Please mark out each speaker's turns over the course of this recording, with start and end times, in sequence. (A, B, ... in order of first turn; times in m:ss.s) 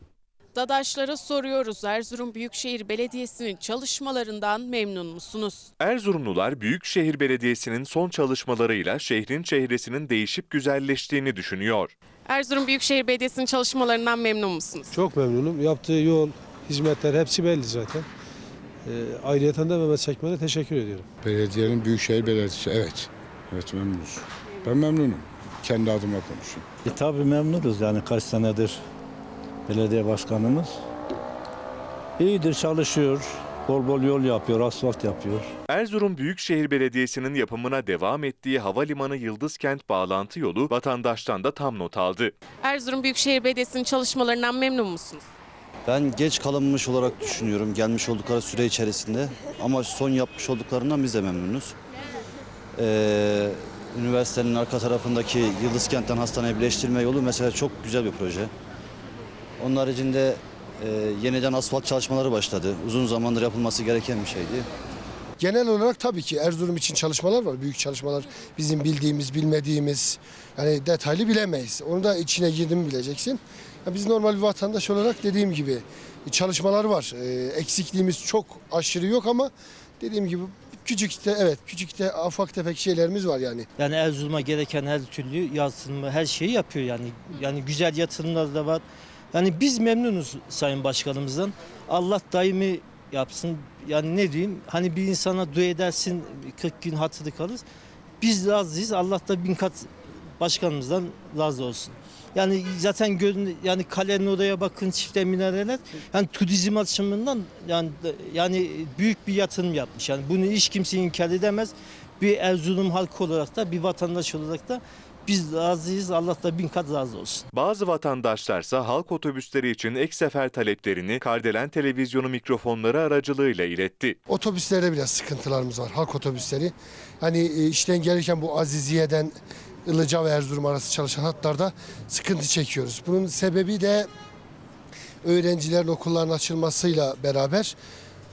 0:00.5-0:05.6 A
0:05.8-0:11.9 B
0:12.3-0:15.0 A
0:14.9-0:18.1 C
0:18.8-0:21.0 C
0:21.2-0:26.7 D
0:26.8-0:28.8 E
0:29.6-0:30.8 E
0:32.2-0:35.5 E
0:35.7-0:42.3 B
0:42.6-0:45.2 A
0:45.9-0:51.8 F
0:52.7-0:58.5 F
0:59.6-1:04.7 F
1:05.4-1:23.7 G
1:23.8-1:37.6 H
1:38.2-1:57.4 H
1:57.5-2:04.2 B
2:04.3-2:09.3 G
2:09.8-2:14.1 G
2:15.2-2:17.7 G